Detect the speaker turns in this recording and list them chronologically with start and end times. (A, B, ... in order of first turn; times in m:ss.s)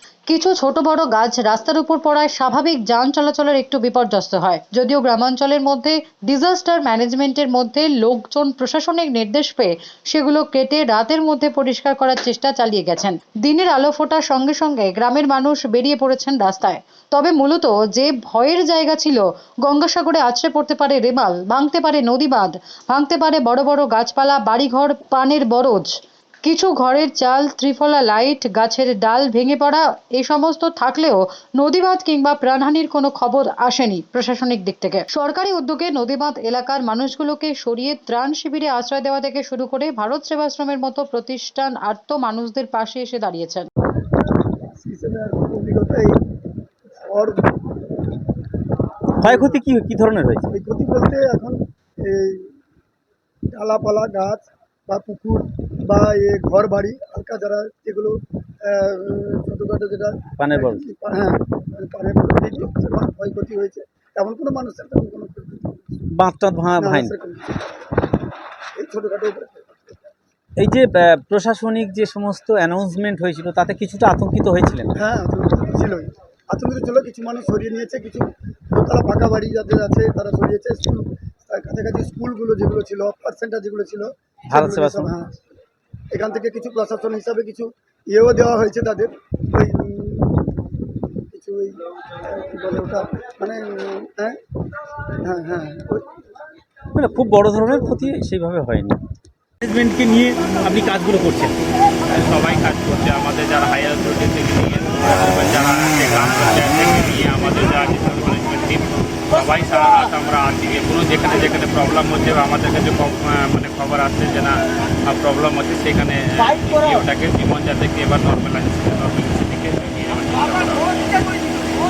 0:00.3-0:25.9 A
0:26.4-0:43.7 A
0:44.8-0:46.2 B
0:47.0-0:47.7 B
0:49.2-0:50.5 C
0:49.2-0:49.5 B
0:50.5-0:52.6 B
0:53.5-1:06.0 B
1:00.4-1:00.8 C
1:06.1-1:07.1 C
1:06.8-1:07.7 B
1:08.8-1:09.8 B
1:10.6-1:14.9 C
1:15.0-1:25.4 B
1:24.5-1:25.1 C
1:26.1-1:30.4 B
1:31.3-1:34.4 B
1:35.2-1:36.1 B
1:37.0-1:39.0 C
1:39.6-1:41.5 C
1:42.1-2:01.1 D